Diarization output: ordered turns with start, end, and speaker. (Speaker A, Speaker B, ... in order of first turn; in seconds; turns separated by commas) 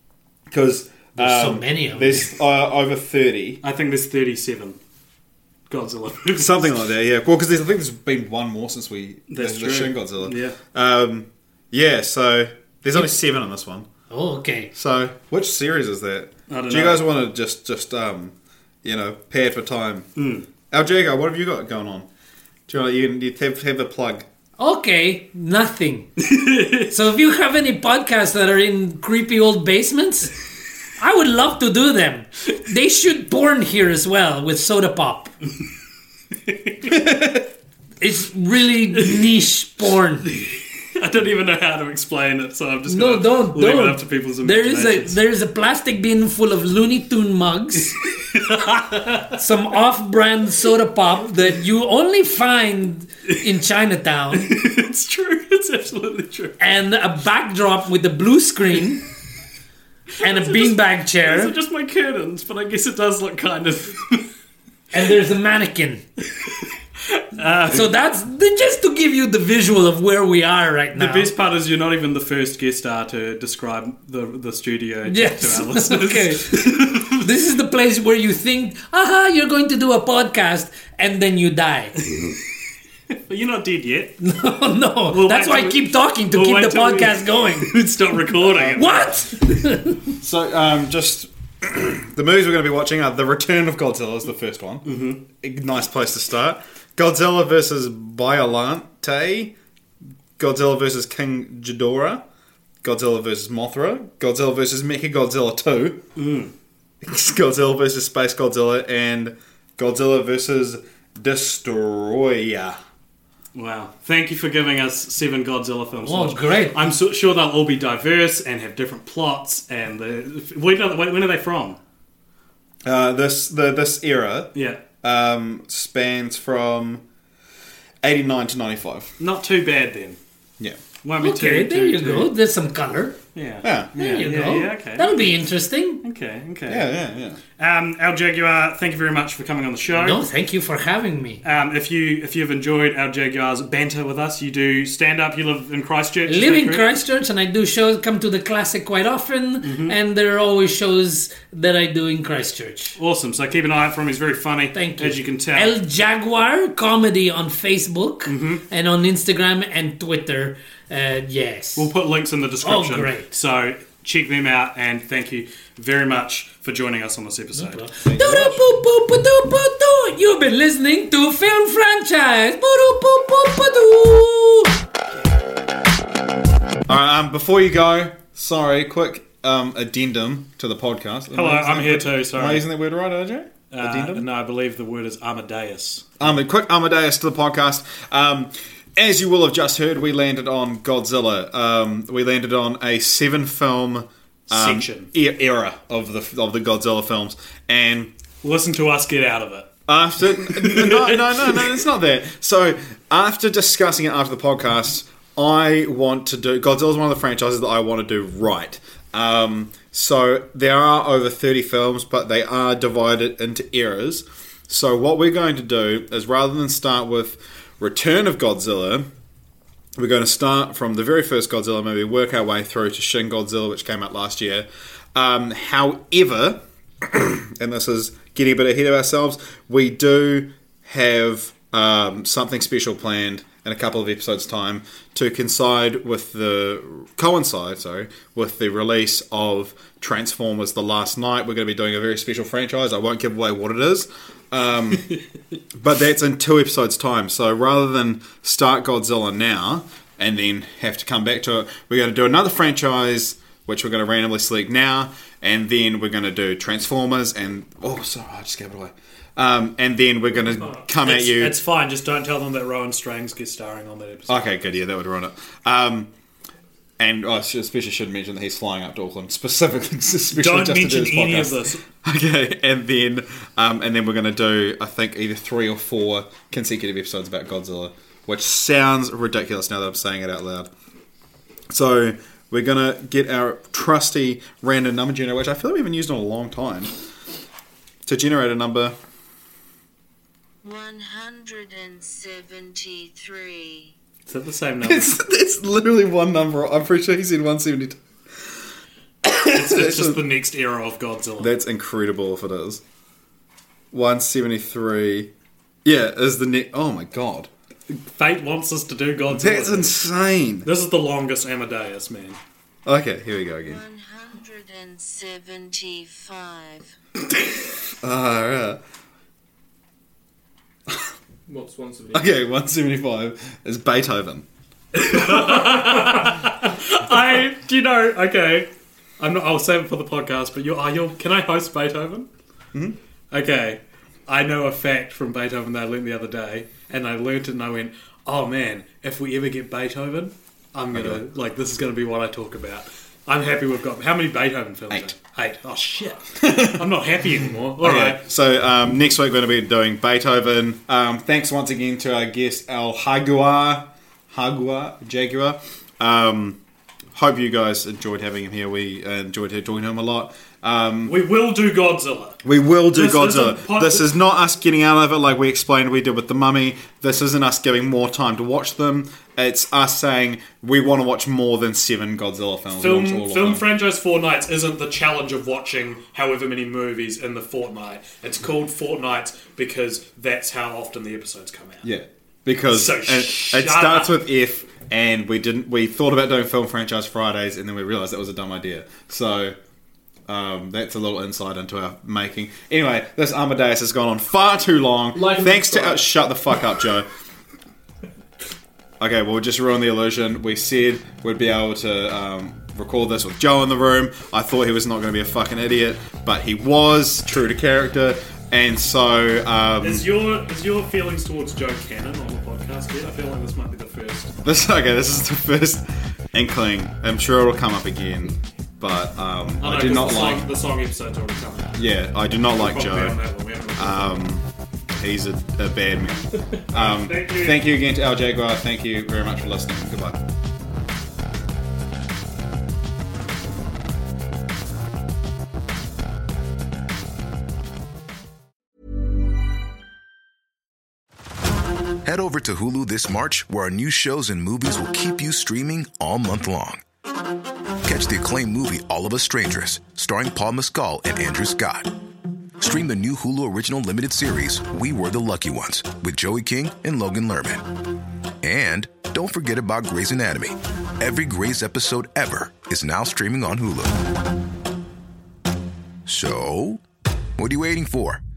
Speaker A: 0.5-3.6, Speaker B: 1.2-2.3, Speaker C: 3.6-4.8, Speaker C: 5.7-6.7, Speaker A: 6.3-13.9, Speaker C: 9.3-10.6, Speaker B: 14.1-14.7, Speaker A: 14.7-20.1, Speaker C: 16.5-17.1, Speaker C: 20.1-20.4, Speaker A: 20.7-22.1, Speaker A: 22.7-24.2, Speaker B: 24.6-26.1, Speaker C: 26.2-26.9, Speaker B: 26.9-30.3, Speaker B: 31.0-35.3, Speaker C: 36.6-36.9, Speaker A: 36.9-37.4, Speaker B: 38.0-40.3, Speaker C: 39.0-39.3, Speaker C: 40.2-45.2, Speaker B: 42.9-48.0, Speaker C: 48.0-49.3, Speaker B: 49.3-54.5, Speaker C: 54.3-56.6, Speaker B: 56.6-59.0, Speaker C: 60.2-64.2, Speaker B: 60.2-61.5, Speaker B: 64.9-66.0, Speaker C: 67.1-67.9, Speaker B: 67.7-71.3, Speaker C: 70.9-77.2, Speaker B: 75.1-81.9, Speaker C: 82.1-82.4, Speaker C: 83.3-84.2, Speaker B: 84.2-87.7, Speaker C: 85.1-88.9, Speaker A: 88.5-89.0, Speaker B: 88.7-90.0, Speaker A: 90.2-99.5, Speaker C: 94.8-95.2, Speaker A: 100.4-102.2, Speaker A: 102.8-106.0, Speaker C: 106.2-106.5, Speaker A: 107.0-112.8, Speaker C: 113.5-121.8, Speaker B: 116.0-116.8, Speaker A: 122.8-124.5, Speaker C: 124.5-124.8, Speaker A: 125.0-127.0, Speaker A: 128.0-129.1, Speaker C: 129.2-130.2, Speaker C: 131.0-132.3, Speaker B: 131.2-133.2, Speaker C: 133.3-135.4, Speaker A: 133.6-134.3, Speaker B: 133.9-136.0, Speaker C: 136.0-136.9, Speaker A: 136.7-137.4, Speaker C: 137.6-140.2, Speaker B: 140.0-141.4, Speaker C: 141.4-146.8, Speaker B: 146.2-153.0, Speaker C: 149.6-149.9, Speaker C: 153.0-155.7, Speaker B: 154.7-161.9, Speaker C: 158.2-158.6, Speaker C: 161.8-167.8, Speaker B: 162.6-163.3, Speaker B: 167.5-174.7, Speaker A: 168.0-168.6, Speaker A: 176.9-184.2, Speaker C: 181.3-182.7, Speaker C: 183.7-186.1, Speaker A: 186.2-198.1, Speaker C: 194.5-195.1, Speaker C: 198.4-199.7, Speaker A: 199.9-219.1, Speaker C: 200.4-201.7, Speaker A: 219.9-245.1, Speaker A: 245.8-261.6, Speaker C: 260.4-264.5, Speaker A: 264.3-266.1, Speaker A: 267.0-280.7, Speaker C: 270.3-271.8, Speaker A: 281.7-286.9, Speaker A: 288.1-288.9, Speaker D: 290.6-293.9, Speaker C: 294.3-295.1, Speaker A: 294.8-298.0, Speaker A: 299.2-300.2, Speaker C: 299.4-301.5, Speaker A: 301.4-302.8, Speaker A: 303.9-305.3, Speaker A: 305.8-307.5, Speaker C: 307.9-310.0, Speaker A: 309.3-310.7, Speaker C: 310.6-312.4, Speaker A: 312.9-313.8, Speaker D: 313.6-316.9, Speaker A: 318.0-318.8, Speaker C: 321.5-322.2, Speaker A: 322.1-324.4, Speaker C: 324.9-328.7, Speaker C: 329.2-332.3, Speaker C: 333.3-348.2, Speaker A: 340.9-341.2, Speaker A: 346.4-346.9, Speaker A: 347.8-356.6, Speaker A: 357.1-361.2, Speaker C: 361.1-364.1, Speaker A: 362.4-373.7, Speaker C: 372.7-381.9, Speaker A: 381.8-389.6, Speaker C: 382.7-384.2, Speaker A: 390.3-397.1, Speaker C: 395.1-396.0, Speaker A: 399.0-410.1, Speaker C: 409.8-414.3, Speaker A: 414.4-420.5, Speaker C: 419.6-421.8, Speaker A: 421.8-423.2, Speaker C: 422.5-424.1, Speaker A: 423.8-424.4, Speaker A: 425.0-430.2, Speaker C: 426.5-427.7, Speaker E: 442.0-446.8, Speaker E: 447.8-451.9, Speaker E: 452.6-457.6, Speaker E: 458.4-464.0, Speaker E: 466.1-466.8, Speaker E: 467.4-468.2